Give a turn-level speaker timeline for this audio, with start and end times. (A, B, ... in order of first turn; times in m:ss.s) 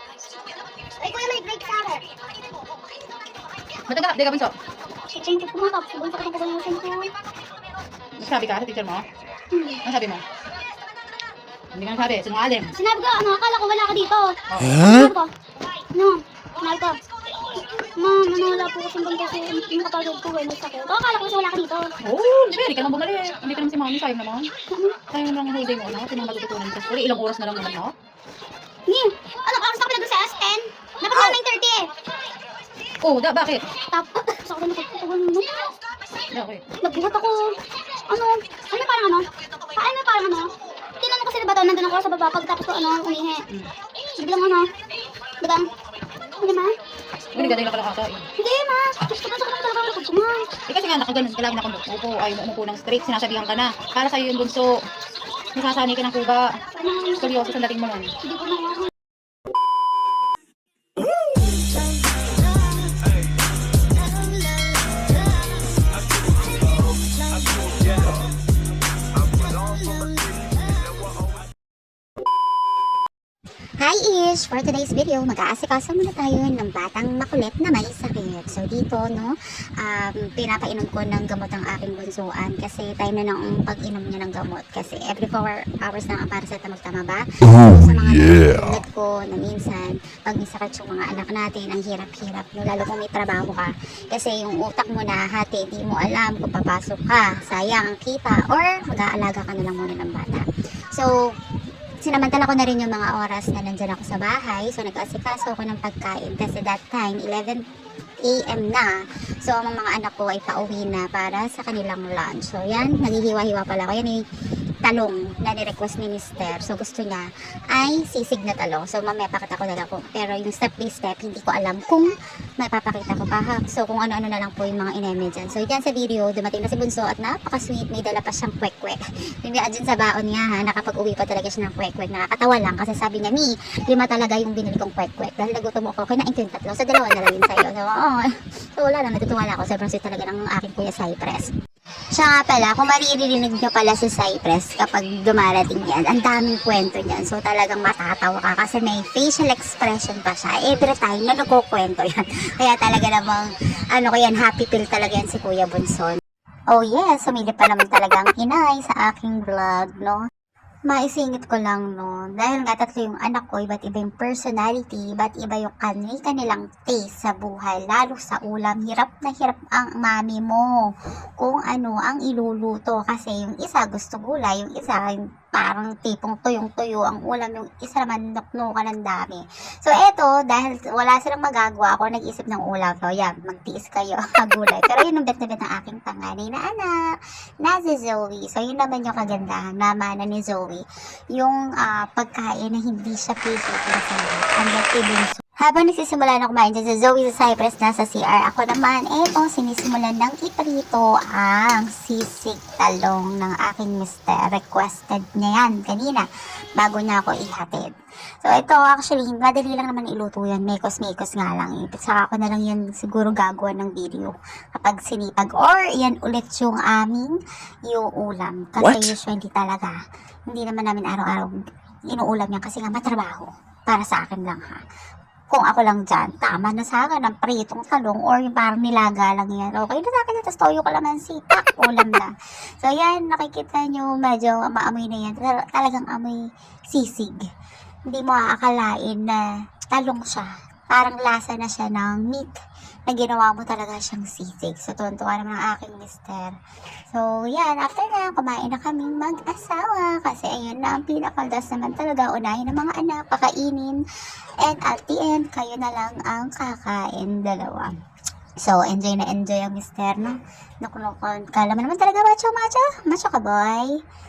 0:01.0-0:02.0 A
0:03.9-0:04.5 B
0:05.1-0:07.1 A
0:08.2-0:09.0 B
0:09.5-0:09.8 A
0:09.8-0:10.2 B
0:11.7-0:12.7 B
0:12.7-0:15.3 A
0:14.5-0:15.1 B
0:15.9-0:17.0 A
0:18.0-0:21.9 A
0:22.0-0:24.5 B
0:24.7-0:25.0 A
0:25.1-0:27.9 B
0:28.9-0:31.9 A
0:31.1-0:31.4 B
0:33.0-0:33.7 B
0:33.8-0:35.7 A
0:36.3-0:36.6 B
0:36.8-0:37.6 A
0:38.1-0:43.4 A
0:44.2-0:44.7 A
0:45.4-0:45.7 A
0:46.4-0:46.8 A
0:47.3-0:48.3 B
0:47.4-0:47.7 A
0:48.4-0:50.5 A
0:50.7-0:54.8 B
0:55.6-0:56.6 B
0:56.7-0:57.6 A
0:57.2-0:58.1 B
0:58.2-0:58.9 A
1:04.1-1:05.0 C
1:07.2-1:08.0 C
1:09.5-1:10.4 C
1:13.8-1:41.3 C
1:42.0-1:47.6 C
1:48.2-1:54.2 C
1:54.8-2:21.5 C
2:22.1-2:36.2 C
2:36.7-2:40.2 C
2:40.9-3:27.9 C
3:28.4-3:37.4 C
3:37.9-3:40.0 C
3:40.5-3:41.6 C
3:42.1-3:44.8 C
3:45.5-3:57.4 C
3:58.1-4:06.6 C
4:07.1-4:14.0 C
4:14.6-4:17.9 C
4:18.6-4:24.0 C